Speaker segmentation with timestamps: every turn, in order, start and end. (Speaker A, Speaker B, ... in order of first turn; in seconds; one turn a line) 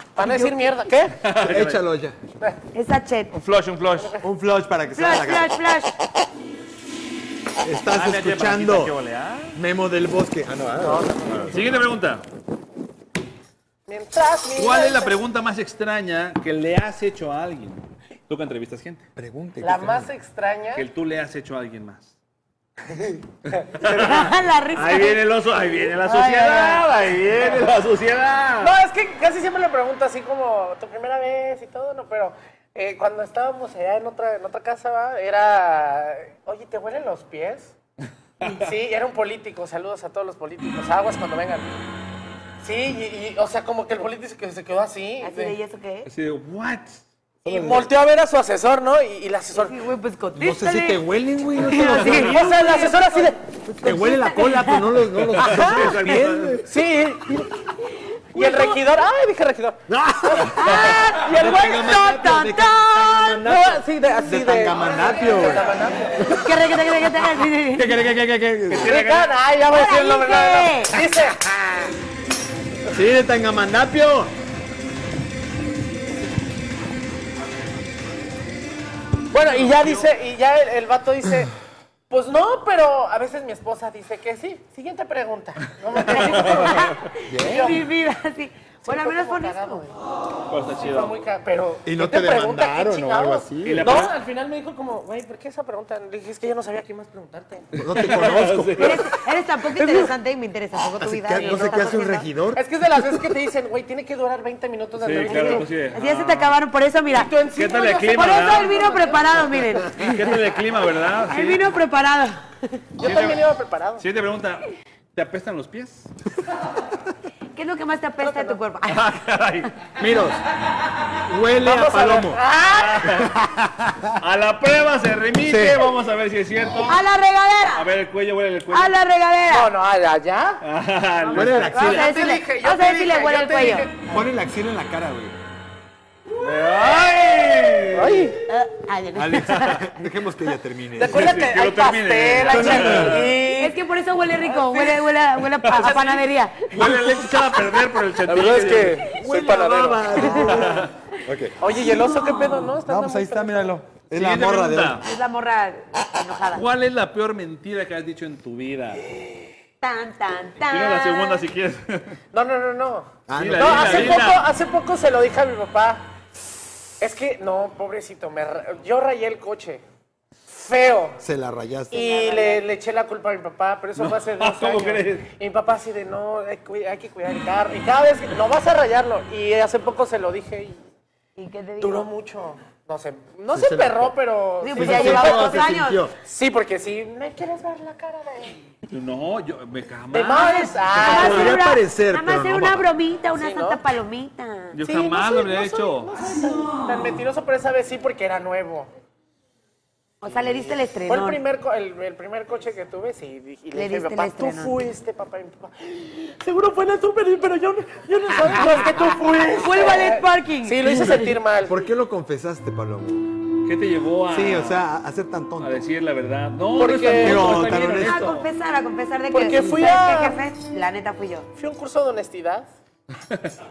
Speaker A: 0.2-1.2
Speaker B: 0.2-0.6
Speaker C: 1.2-1.8
Speaker D: 1.4-2.2
Speaker B: 2.7-3.3
Speaker C: 3.3-4.2
Speaker A: 4.0-4.2
Speaker D: 4.2-5.6
Speaker B: 5.0-5.9
Speaker D: 7.6-8.9
Speaker C: 7.9-9.6
Speaker D: 9.5-11.6
Speaker A: 10.8-11.7
Speaker C: 11.5-12.2
Speaker A: 13.9-15.1
Speaker C: 14.6-19.1
Speaker D: 19.2-20.1
Speaker A: 19.6-20.9
Speaker C: 20.8-22.1
Speaker C: 23.5-28.8
Speaker A: 23.8-24.1
Speaker B: 23.9-25.2
Speaker B: 26.0-26.9
Speaker A: 28.6-37.7
Speaker A: 38.5-41.7
Speaker A: 42.6-45.6
Speaker B: 45.2-46.1
Speaker C: 46.1-47.0
Speaker A: 47.4-49.8
Speaker D: 47.5-47.9
Speaker B: 49.5-51.0
Speaker D: 50.4-52.5
Speaker B: 51.5-53.3
Speaker C: 51.8-52.5
Speaker A: 52.1-53.4
Speaker D: 53.7-56.7
Speaker B: 53.8-54.9
Speaker C: 55.3-56.6
Speaker A: 55.5-55.8
Speaker A: 56.6-57.6
Speaker A: 58.3-62.0
Speaker B: 58.4-58.8
Speaker D: 59.9-65.7
Speaker B: 60.5-63.4
Speaker C: 60.7-61.0
Speaker A: 63.4-66.2
Speaker D: 66.2-66.5
Speaker B: 66.3-67.9
Speaker D: 67.7-69.0
Speaker C: 68.7-69.3
Speaker A: 68.8-71.9
Speaker B: 69.7-71.0
Speaker D: 72.9-74.3
Speaker A: 79.3-81.5
Speaker C: 79.5-80.1
Speaker A: 82.1-87.9
Speaker C: 86.0-86.9
Speaker B: 86.1-89.9
Speaker D: 87.3-87.8
Speaker A: 88.8-90.0
Speaker C: 90.5-91.2
Speaker A: 90.8-97.7
Speaker D: 91.8-94.0
Speaker C: 93.6-94.1
Speaker C: 97.8-99.0
Speaker D: 97.8-99.0
Speaker B: 98.8-102.3
Speaker A: 99.7-100.1
Speaker D: 101.0-103.2
Speaker A: 101.4-101.9
Speaker A: 102.5-105.7
Speaker C: 105.0-106.6
Speaker B: 105.3-107.3
Speaker A: 107.1-109.6
Speaker C: 107.5-108.8
Speaker B: 108.1-110.2
Speaker C: 110.0-111.7
Speaker B: 111.3-112.8
Speaker A: 113.0-114.0
Speaker C: 113.0-113.4
Speaker C: 114.0-116.1
Speaker B: 117.5-119.1
Speaker A: 118.2-118.6
Speaker C: 118.9-119.7
Speaker D: 120.0-120.4
Speaker D: 121.2-122.4
Speaker A: 121.6-123.1
Speaker C: 122.7-123.3
Speaker D: 123.1-124.2
Speaker C: 124.2-127.0
Speaker D: 125.4-125.8
Speaker B: 126.8-127.9
Speaker C: 127.7-129.0
Speaker B: 128.7-129.7
Speaker A: 129.5-130.6
Speaker C: 130.6-132.1
Speaker D: 131.3-132.1
Speaker A: 131.3-134.1
Speaker B: 131.6-133.9
Speaker D: 134.1-135.4
Speaker C: 136.4-138.3
Speaker A: 137.9-138.4
Speaker B: 138.4-139.9
Speaker D: 139.2-141.5
Speaker C: 139.4-139.8
Speaker A: 141.0-143.8
Speaker C: 141.0-143.3
Speaker D: 142.4-143.2
Speaker B: 143.1-146.9
Speaker A: 144.4-145.0
Speaker C: 145.6-149.1
Speaker A: 148.3-150.8
Speaker D: 149.0-151.6
Speaker C: 150.3-150.9
Speaker A: 151.6-153.7
Speaker B: 151.9-152.6
Speaker D: 152.8-155.0
Speaker C: 154.1-155.1
Speaker B: 155.0-156.6
Speaker C: 156.5-159.0
Speaker B: 159.8-161.4
Speaker C: 160.7-162.2
Speaker A: 162.3-166.0
Speaker D: 163.3-164.2
Speaker C: 163.3-164.4
Speaker A: 167.0-169.8
Speaker A: 170.5-171.2
Speaker D: 171.2-172.0
Speaker A: 171.9-180.8
Speaker B: 171.9-172.7
Speaker C: 174.0-175.3
Speaker B: 181.4-182.1
Speaker A: 181.8-188.6
Speaker D: 183.5-184.1
Speaker B: 184.6-186.1
Speaker D: 184.7-186.1
Speaker C: 188.9-191.6
Speaker A: 190.1-191.6
Speaker B: 190.3-194.8
Speaker D: 190.9-192.9
Speaker A: 193.3-193.8
Speaker C: 194.7-196.1
Speaker A: 194.8-198.9
Speaker B: 200.2-201.4
Speaker A: 201.1-211.8
Speaker B: 203.7-204.8
Speaker B: 209.5-211.3
Speaker D: 211.6-213.3
Speaker C: 213.6-214.8
Speaker D: 214.3-215.8
Speaker C: 215.6-218.5
Speaker A: 216.8-217.7
Speaker D: 217.2-218.3
Speaker B: 217.7-221.5
Speaker A: 219.3-220.4
Speaker A: 221.6-222.7